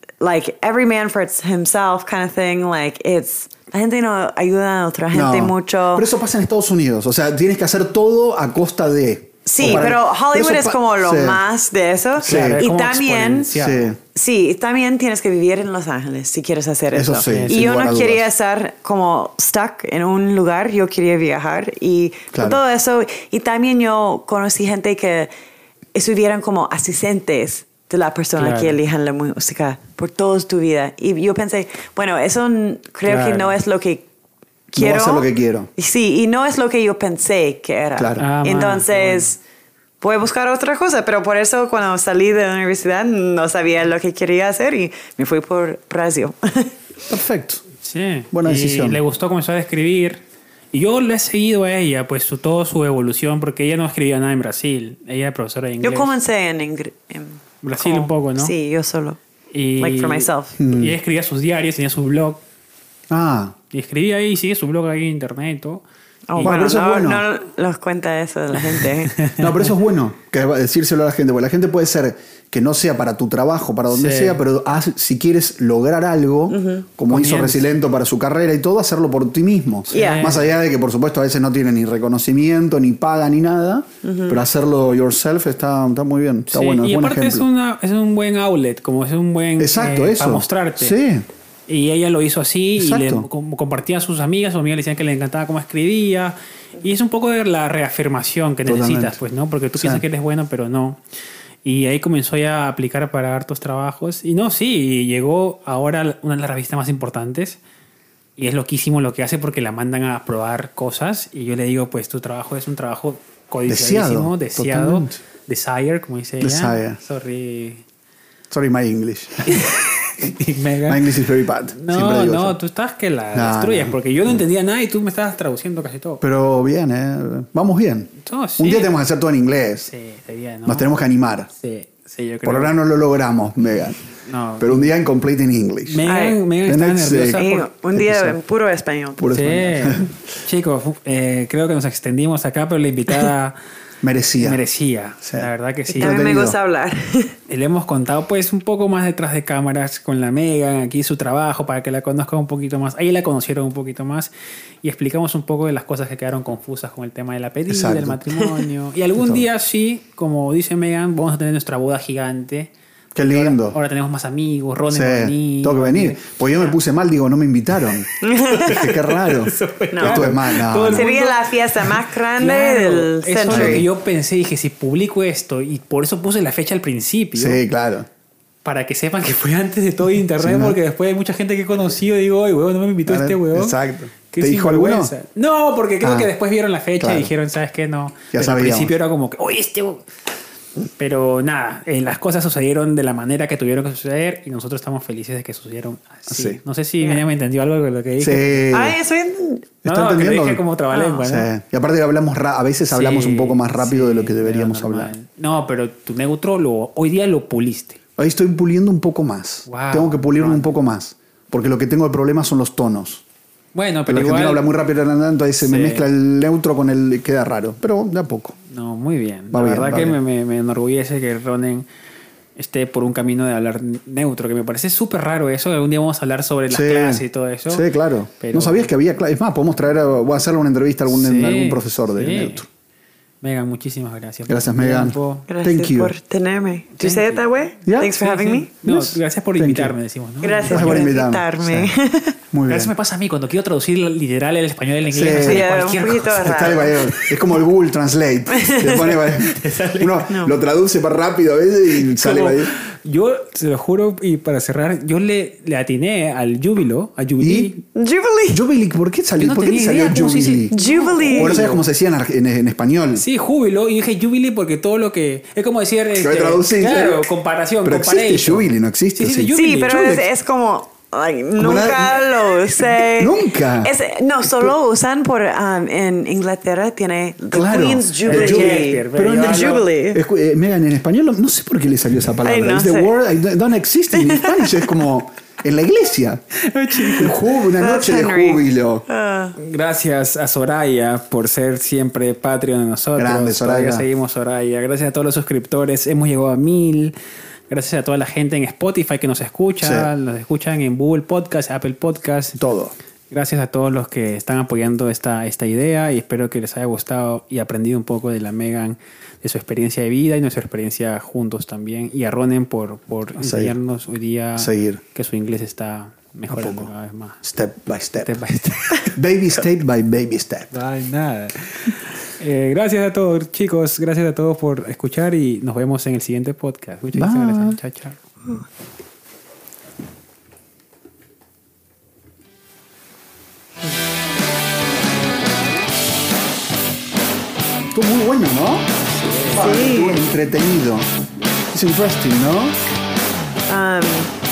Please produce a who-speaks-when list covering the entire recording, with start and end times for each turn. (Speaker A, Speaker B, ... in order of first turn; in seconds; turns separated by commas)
Speaker A: 0.2-6.1, Speaker B: 5.1-11.4, Speaker A: 9.4-25.3, Speaker C: 9.6-9.9, Speaker C: 12.2-13.9, Speaker B: 12.2-12.6, Speaker B: 13.6-14.0, Speaker B: 16.9-18.3, Speaker C: 17.2-17.6, Speaker B: 22.3-22.6, Speaker A: 25.9-34.0, Speaker C: 28.4-28.8, Speaker C: 33.0-33.6, Speaker A: 34.7-39.4, Speaker B: 34.8-35.7, Speaker B: 38.0-38.2, Speaker C: 38.2-39.3, Speaker A: 40.0-46.8, Speaker B: 47.1-47.6, Speaker C: 47.8-50.2, Speaker B: 48.3-49.0, Speaker C: 50.7-56.1, Speaker A: 55.8-59.2, Speaker C: 57.6-58.5, Speaker C: 59.5-62.4, Speaker A: 59.8-60.6, Speaker B: 60.6-61.0, Speaker B: 63.1-63.5, Speaker C: 63.7-65.8, Speaker A: 66.3-69.2, Speaker B: 66.4-67.3, Speaker C: 69.1-69.7, Speaker B: 69.3-87.5, Speaker C: 73.9-74.4, Speaker A: 76.5-76.9, Speaker C: 77.1-77.7, Speaker C: 79.9-80.5, Speaker A: 79.9-80.4, Speaker A: 84.0-84.4, Speaker C: 86.5-91.0, Speaker B: 89.6-91.3, Speaker C: 91.7-101.0, Speaker B: 92.8-93.3, Speaker B: 98.7-99.2, Speaker B: 99.8-100.0, Speaker C: 101.6-107.6, Speaker C: 108.4-117.8, Speaker B: 113.7-115.2, Speaker B: 116.4-117.0, Speaker B: 118.5-119.7, Speaker C: 119.5-121.0, Speaker B: 120.9-122.6, Speaker C: 121.7-126.2, Speaker B: 123.3-124.4, Speaker B: 126.2-129.9, Speaker C: 128.2-129.0, Speaker C: 129.9-130.9, Speaker B: 130.7-131.5, Speaker C: 131.5-132.8, Speaker B: 132.4-134.0, Speaker C: 134.2-134.9, Speaker B: 134.6-136.0, Speaker C: 135.8-137.7, Speaker A: 136.0-136.4, Speaker B: 136.6-138.4, Speaker A: 137.3-139.3, Speaker B: 139.2-140.1, Speaker C: 139.3-143.6, Speaker B: 144.0-144.6, Speaker C: 144.4-146.3, Speaker B: 145.2-146.6, Speaker A: 146.0-147.4, Speaker C: 147.5-154.3, Speaker C: 154.8-166.7, Speaker B: 157.7-158.2, Speaker B: 159.2-159.4, Speaker B: 163.2-163.8, Speaker B: 164.9-171.1, Speaker A: 168.2-168.8, Speaker C: 168.5-177.6, Speaker A: 169.9-173.9, Speaker B: 173.5-173.8, Speaker B: 177.4-178.1, Speaker C: 178.6-183.8, Speaker B: 180.4-180.8, Speaker B: 183.1-185.1, Speaker C: 184.3-190.1, Speaker B: 186.0-186.3, Speaker B: 187.0-187.3, Speaker B: 188.3-188.9, Speaker C: 191.0-198.7, Speaker B: 196.3-196.6, Speaker B: 198.2-199.0, Speaker A: 198.7-199.7, Speaker B: 199.8-200.6, Speaker C: 199.8-201.5, Speaker A: 200.9-201.2, Speaker B: 201.2-205.1, Speaker C: 202.9-208.0, Speaker B: 208.2-213.2, Speaker C: 209.7-210.8, Speaker C: 213.7-214.7, Speaker B: 214.1-218.6, Speaker C: 215.6-216.1, Speaker C: 218.7-221.9, Speaker B: 219.5-220.2, Speaker C: 222.6-227.9, Speaker B: 226.7-232.7, Speaker C: 228.4-228.9, Speaker C: 231.1-232.7, Speaker C: 233.4-235.5, Speaker B: 234.5-236.1, Speaker A: 235.5-238.7, Speaker C: 237.0-237.4, Speaker B: 237.9-238.1, Speaker C: 238.1-241.1, Speaker B: 238.8-239.9, Speaker A: 240.4-242.4, Speaker B: 240.7-241.9, Speaker B: 242.5-242.9, Speaker C: 242.7-246.8, Speaker B: 245.1-245.7, Speaker A: 245.3-247.1, Speaker B: 246.4-252.7, Speaker A: 248.5-249.2, Speaker C: 249.4-250.3, Speaker A: 250.3-250.6, Speaker C: 252.1-257.8, Speaker B: 257.4-257.7, Speaker A: 257.9-258.6, Speaker B: 258.5-260.7, Speaker C: 259.4-261.8, Speaker A: 260.7-261.6, Speaker B: 261.3-263.2, Speaker C: 263.1-270.2, Speaker B: 266.1-267.3, Speaker B: 267.8-270.3, Speaker A: 269.5-280.2, Speaker B: 271.6-273.9, Speaker B: 277.5-286.4, Speaker C: 278.2-279.9, Speaker A: 282.4-283.1, Speaker A: 284.1-285.0, Speaker C: 286.6-287.4, Speaker B: 287.0-289.0, Speaker A: 287.8-289.6, Speaker C: 289.6-297.1, Speaker B: 293.2-294.1, Speaker C: 297.7-302.6, Speaker B: 299.8-300.1, Speaker B: 302.6-302.9, Speaker C: 303.3-317.4, Speaker B: 313.4-313.7, Speaker B: 314.6-315.0, Speaker B: 316.5-316.9, Speaker B: 317.4-318.3, Speaker C: 318.2-319.2, Speaker B: 319.1-320.7, Speaker C: 320.7-328.2, Speaker B: 327.1-327.8, Speaker B: 337.9-338.9, Speaker C: 339.2-339.7, Speaker B: 339.5-341.1, Speaker A: 339.6-340.2, Speaker B: 341.7-342.8, Speaker A: 343.7-344.3